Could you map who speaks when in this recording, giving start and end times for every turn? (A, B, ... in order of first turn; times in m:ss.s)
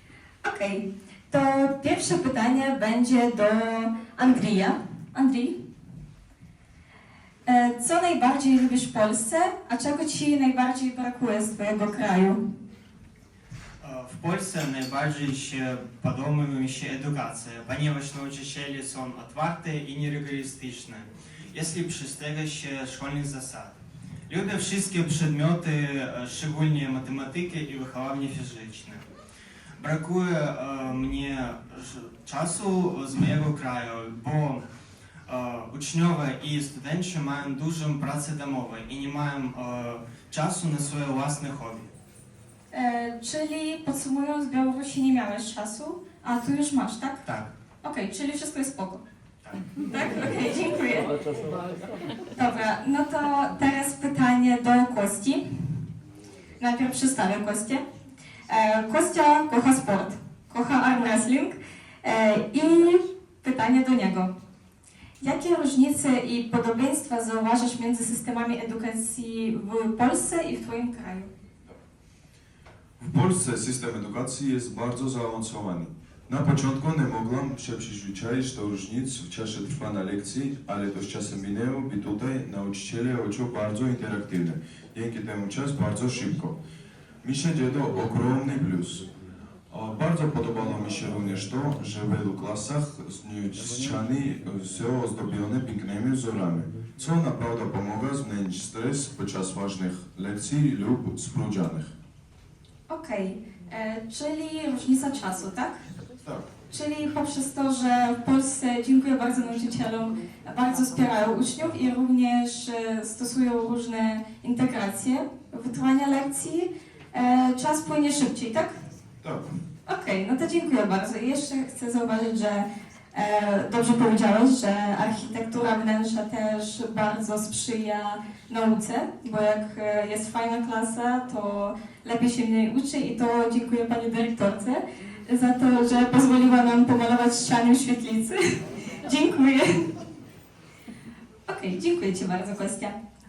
0:00.4-0:05.5 A
0:07.5-0:12.4 A
0:13.8-0:23.8 B
0:24.3-0:29.0 B
0:29.8-0:34.6 B
0:35.3-0:41.9 B
0:42.7-0:47.2 A
0:47.2-0:47.5 B
0:47.8-0:49.0 A
0:49.8-0:51.1 A
0:52.3-0:55.4 A
0:56.6-0:57.8 A
0:58.5-1:04.3 A
1:05.2-1:11.3 A
1:13.0-1:26.6 C
1:27.2-1:29.1 C
1:29.7-1:41.9 C
1:42.9-1:45.8 A
1:46.7-1:58.8 A
1:59.2-1:59.5 C
1:59.9-2:19.9 A
2:21.5-2:23.0 A